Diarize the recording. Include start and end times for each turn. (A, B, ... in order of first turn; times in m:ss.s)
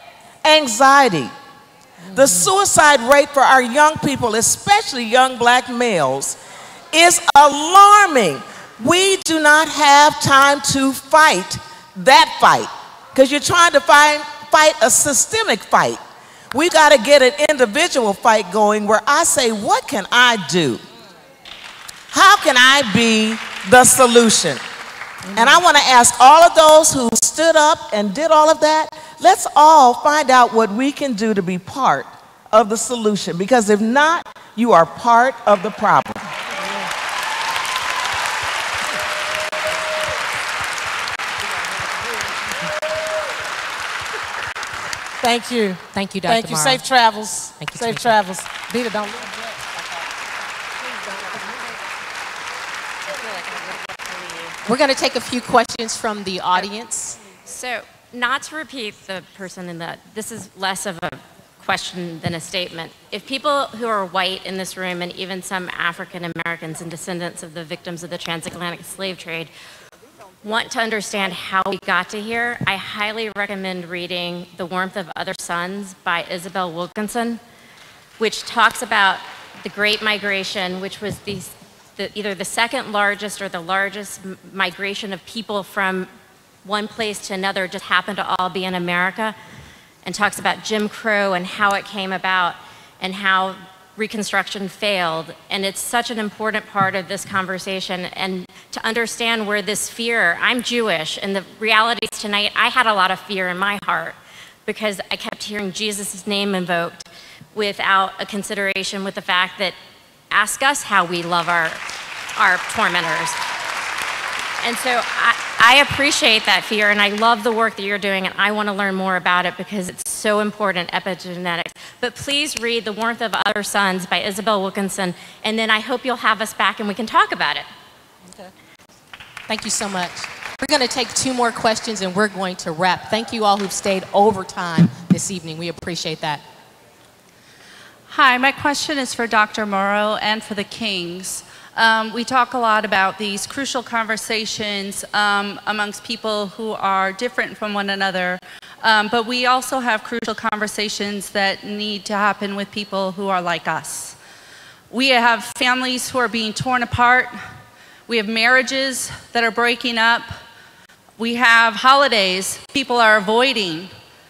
0:00.4-0:01.3 A
0:02.0-0:02.5 B
0:02.1-0:06.4 A
0:06.9-0:16.0 A
0:16.5-0:20.8 A
0:22.1-0:24.6 A
0:25.3-0:25.6 B
0:25.3-0:36.2 A
0:45.2-0:49.5 B
0:45.9-0:46.8 C
0:47.6-0:48.2 C
0:54.6-0:57.2 C
0:57.4-1:09.5 D
1:10.4-1:17.4 D
1:18.2-1:26.1 D
1:26.6-1:29.4 D
1:30.0-1:49.8 D
1:50.3-1:51.8 D
1:52.4-1:53.4 D
1:54.6-2:07.7 D
2:09.5-2:16.4 C
2:18.1-2:34.2 E
2:34.9-2:37.4 E
2:38.1-2:40.3 E
2:41.2-2:43.9 E